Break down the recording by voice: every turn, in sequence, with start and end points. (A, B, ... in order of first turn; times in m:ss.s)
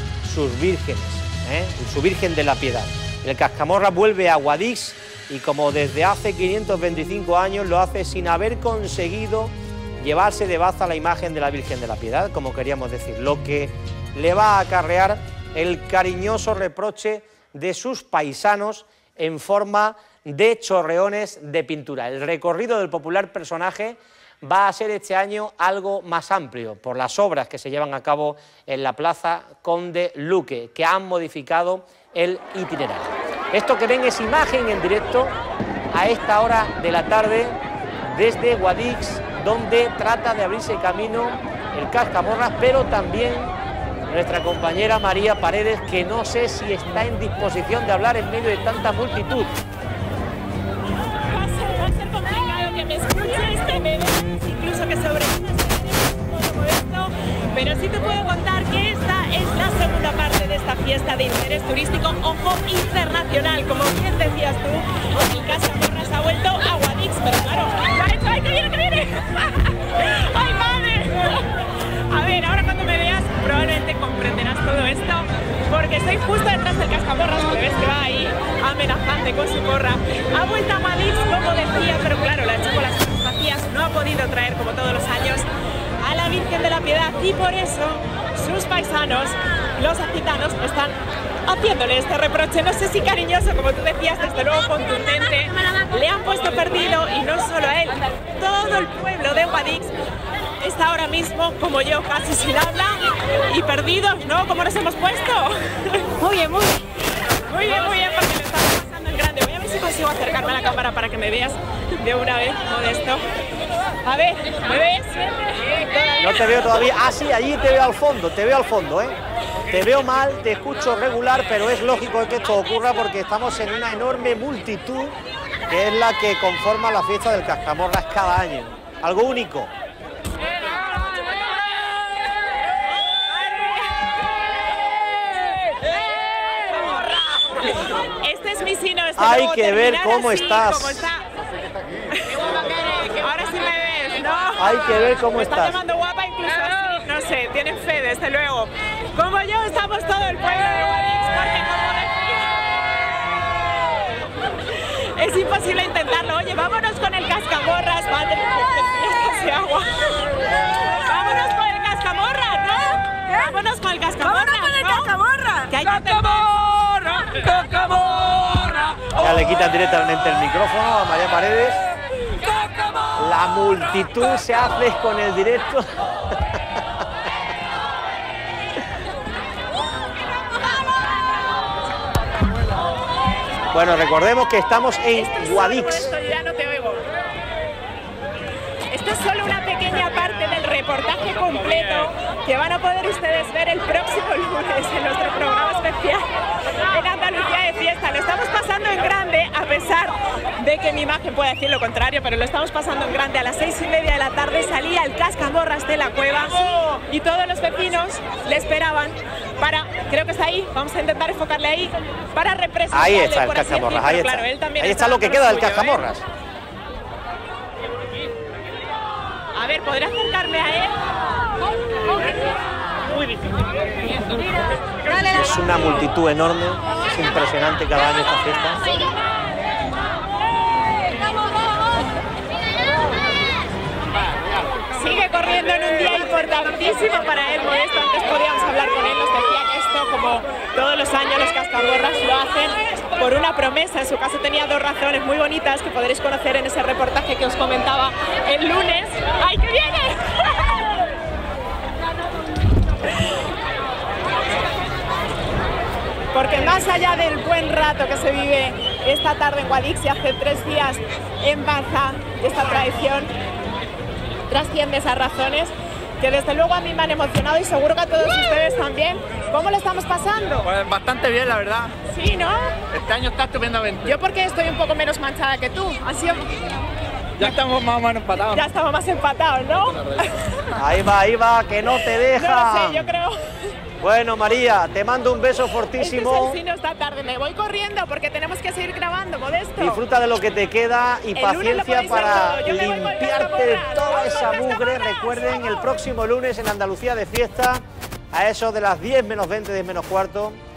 0:00.2-0:35.4 A
0:35.9-0:43.5 A
0:44.1-0:49.5 A
0:51.2-1:25.5 B
1:26.0-1:39.9 B
1:40.6-1:46.8 B
1:47.5-1:53.2 B
1:54.0-1:56.5 B
1:56.2-1:59.1 A
1:59.7-2:05.2 A
2:05.7-2:09.7 A
2:17.8-2:21.2 B
2:19.2-2:21.0 A
2:22.1-2:34.1 B
2:24.6-2:25.8 A
2:34.6-2:48.9 B
2:49.2-2:51.8 A
2:53.1-2:56.8 A
3:03.7-3:06.1 A
3:05.1-3:07.0 B
3:08.9-3:16.3 B
3:16.9-3:36.1 B
3:32.9-3:36.2 A
3:39.5-3:41.0 B
3:45.2-3:48.8 A
3:54.9-4:11.0 B
4:16.3-4:23.3 B
4:24.5-4:30.7 B
4:30.7-4:31.9 C
4:32.1-4:32.8 B
4:32.9-4:34.1 C
4:34.0-4:36.5 B
4:37.4-4:38.6 C
4:38.5-4:40.7 B
4:40.7-4:43.1 A
4:42.0-4:43.7 B
4:44.0-4:46.6 A
4:45.9-4:50.0 B
4:49.8-4:57.8 A
4:51.3-4:55.7 B
4:58.3-5:00.6 A